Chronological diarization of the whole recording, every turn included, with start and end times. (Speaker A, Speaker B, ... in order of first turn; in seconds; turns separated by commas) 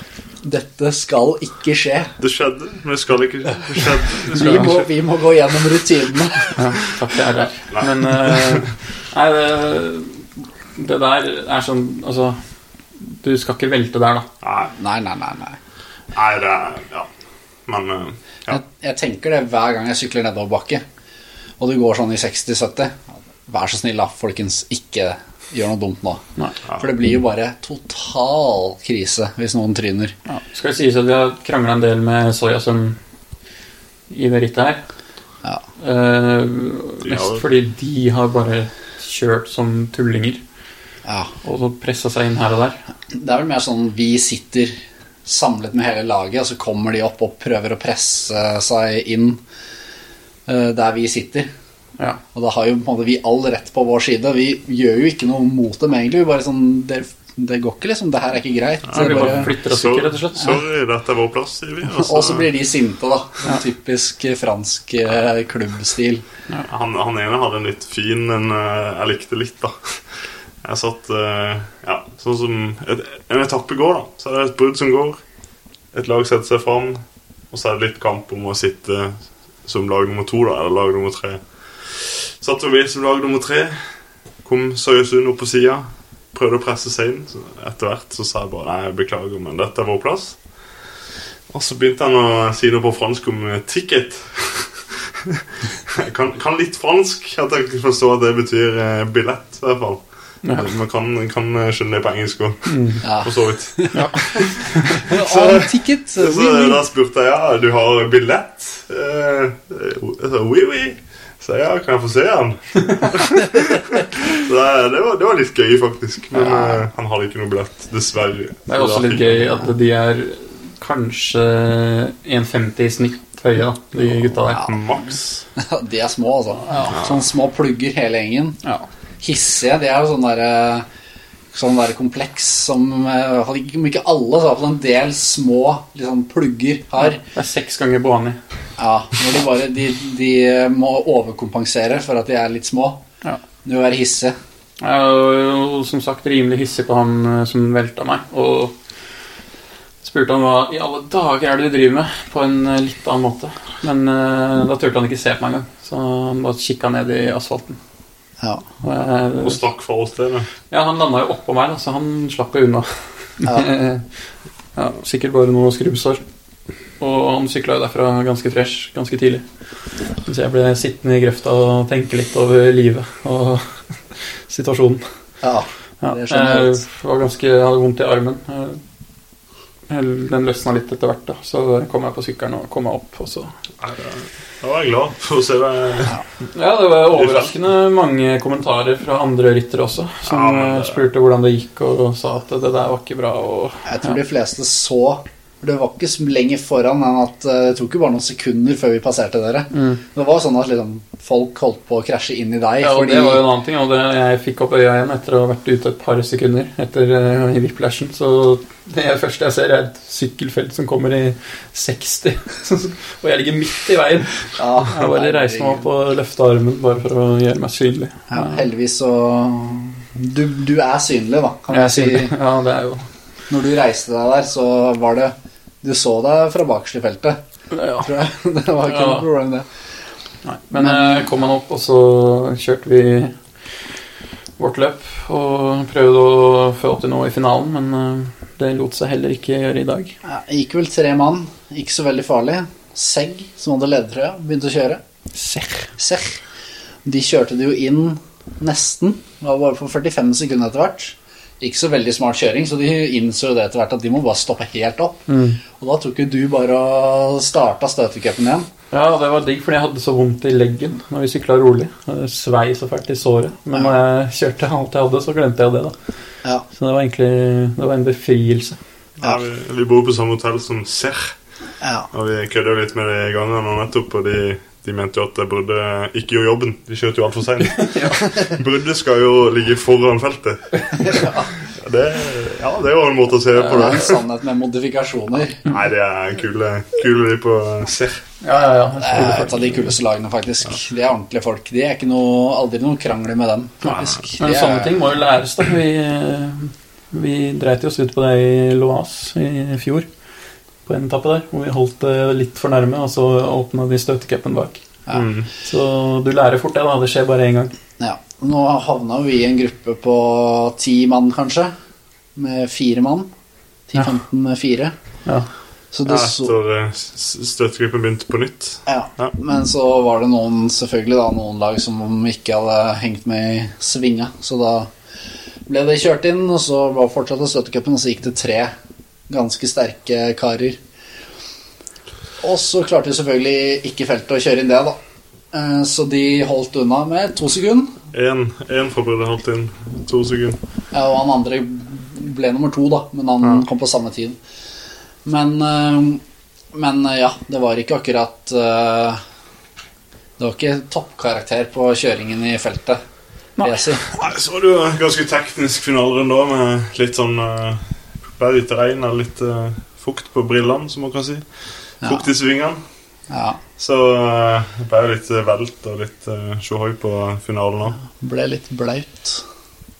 Speaker A: 0.4-2.1, Speaker B: 2.2-4.9, Speaker A: 4.1-6.6, Speaker C: 4.3-4.7, Speaker C: 6.5-12.4, Speaker B: 7.7-8.6, Speaker C: 13.0-14.3, Speaker B: 14.4-14.7, Speaker A: 14.7-15.6, Speaker B: 16.1-17.1, Speaker B: 17.7-18.6, Speaker A: 18.5-20.8, Speaker A: 21.6-30.1, Speaker C: 30.3-33.0, Speaker C: 34.1-34.8, Speaker C: 35.8-40.4, Speaker B: 37.0-37.4, Speaker A: 41.0-41.3, Speaker C: 41.4-42.8, Speaker A: 43.1-49.4, Speaker A: 50.5-51.5, Speaker A: 52.3-59.5, Speaker B: 58.9-62.5, Speaker C: 58.9-60.6, Speaker A: 61.9-66.2, Speaker B: 66.7-70.0, Speaker B: 70.6-75.2, Speaker B: 75.9-83.8, Speaker B: 84.4-90.4, Speaker B: 91.5-119.6, Speaker C: 100.4-100.7, Speaker C: 102.7-103.0, Speaker A: 103.0-104.0, Speaker C: 103.9-105.0, Speaker A: 105.0-106.8, Speaker A: 116.3-116.8, Speaker C: 118.7-124.7, Speaker B: 124.5-125.4, Speaker A: 124.5-124.8, Speaker A: 125.5-128.6, Speaker B: 126.8-127.2, Speaker A: 129.2-130.8, Speaker A: 131.5-137.2, Speaker C: 137.1-138.4, Speaker A: 138.8-143.0, Speaker A: 143.6-144.3, Speaker C: 144.8-148.8, Speaker C: 150.0-157.8, Speaker A: 158.4-158.6, Speaker C: 158.8-159.6, Speaker B: 159.4-160.5, Speaker C: 160.7-164.1, Speaker C: 164.8-166.2, Speaker C: 167.0-169.4, Speaker C: 170.2-173.8, Speaker C: 174.5-175.0, Speaker A: 175.4-176.8, Speaker C: 176.0-178.8, Speaker C: 179.9-183.5, Speaker B: 183.8-186.2, Speaker C: 186.5-194.2, Speaker B: 187.1-187.5, Speaker B: 190.2-191.0, Speaker A: 193.8-203.4, Speaker C: 199.7-200.0, Speaker C: 202.8-218.6, Speaker A: 214.6-215.9, Speaker A: 218.3-222.3, Speaker C: 221.7-223.1, Speaker A: 223.5-227.4, Speaker C: 227.7-228.1, Speaker A: 228.0-229.7, Speaker C: 228.8-229.2, Speaker C: 230.4-233.3, Speaker A: 230.8-231.3, Speaker C: 234.6-240.1, Speaker A: 240.2-245.0, Speaker C: 245.3-245.9, Speaker A: 246.0-246.4, Speaker A: 247.0-258.7, Speaker C: 255.3-255.6, Speaker C: 258.9-265.9, Speaker C: 266.7-268.8, Speaker B: 269.2-271.3, Speaker A: 271.8-272.1, Speaker B: 272.1-284.2, Speaker C: 277.8-278.2, Speaker A: 281.0-281.5, Speaker A: 283.6-285.6, Speaker C: 283.6-283.9, Speaker B: 285.6-288.2, Speaker C: 288.4-289.9, Speaker A: 289.0-294.9, Speaker B: 293.9-294.1, Speaker C: 294.4-300.1, Speaker C: 300.9-304.8, Speaker B: 305.1-305.5, Speaker C: 305.6-307.7, Speaker A: 308.0-311.7, Speaker A: 312.4-313.3, Speaker A: 313.9-314.9, Speaker A: 315.9-316.5, Speaker B: 316.1-319.3, Speaker A: 318.9-324.9, Speaker A: 325.7-328.7, Speaker A: 329.3-330.8, Speaker A: 332.4-335.0, Speaker A: 335.5-338.0, Speaker B: 338.1-340.6, Speaker A: 340.9-344.4, Speaker A: 345.2-346.2, Speaker A: 346.7-349.2, Speaker A: 350.4-353.0, Speaker A: 353.6-354.0, Speaker B: 354.1-361.4, Speaker B: 362.0-362.8, Speaker A: 362.0-362.3, Speaker A: 363.3-363.6, Speaker B: 363.8-368.0, Speaker A: 368.0-369.4